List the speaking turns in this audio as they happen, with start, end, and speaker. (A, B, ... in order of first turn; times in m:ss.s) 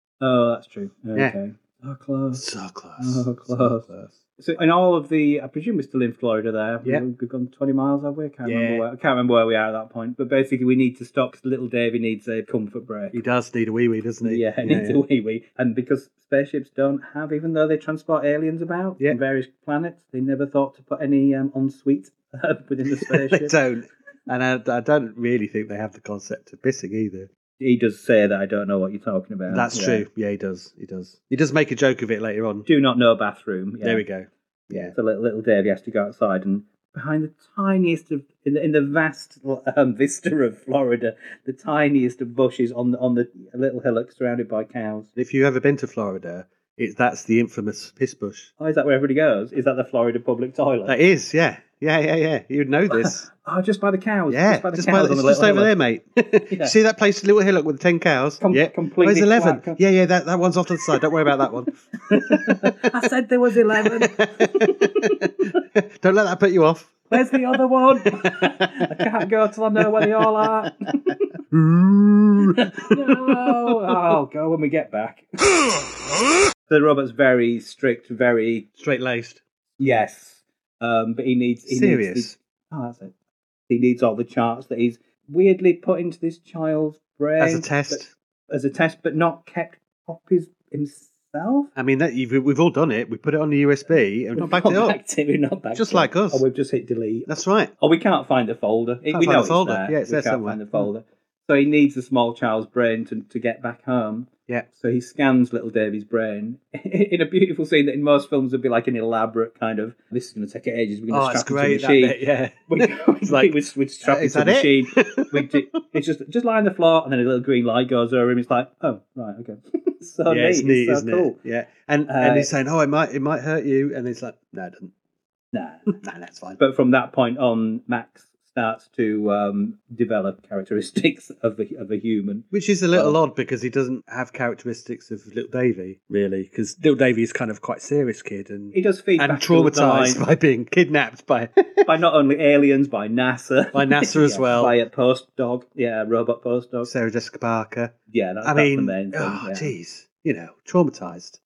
0:00.2-0:02.4 A
0:02.4-0:04.2 B
0:03.0-0:13.2 A
0:08.4-0:08.8 B
0:13.1-0:15.0 B
0:14.2-0:23.5 A
0:23.0-0:27.3 B
0:27.6-0:30.0 A
0:29.5-0:32.7 B
0:32.6-0:34.0 A
0:33.8-0:34.9 B
0:34.7-0:45.1 A
0:45.2-0:48.5 B
0:48.6-0:50.9 A
0:50.9-0:53.3 B
0:52.9-0:55.7 A
0:54.3-1:02.8 B
0:58.4-0:59.8 A
1:02.1-1:05.2 A
1:03.8-1:09.0 B
1:07.1-1:11.2 A
1:09.8-1:10.7 B
1:11.5-1:14.1 B
1:12.6-1:15.3 A
1:16.7-1:18.7 A
1:18.8-1:19.4 B
1:19.8-1:23.1 A
1:21.7-1:22.4 B
1:23.7-1:31.7 A
1:27.4-1:28.1 B
1:31.8-1:35.0 B
1:34.4-1:37.3 A
1:35.7-1:36.4 B
1:37.3-1:37.7 B
1:37.8-2:01.4 A
1:39.1-1:40.9 B
1:51.1-1:55.5 B
2:00.3-2:04.9 B
2:02.1-2:02.5 A
2:05.5-2:06.0 A
2:06.0-2:06.6 B
2:06.6-2:13.2 A
2:12.5-2:21.9 B
2:18.7-2:20.2 A
2:21.8-2:26.9 A
2:23.7-2:24.8 B
2:26.8-2:31.4 B
2:28.1-2:29.7 A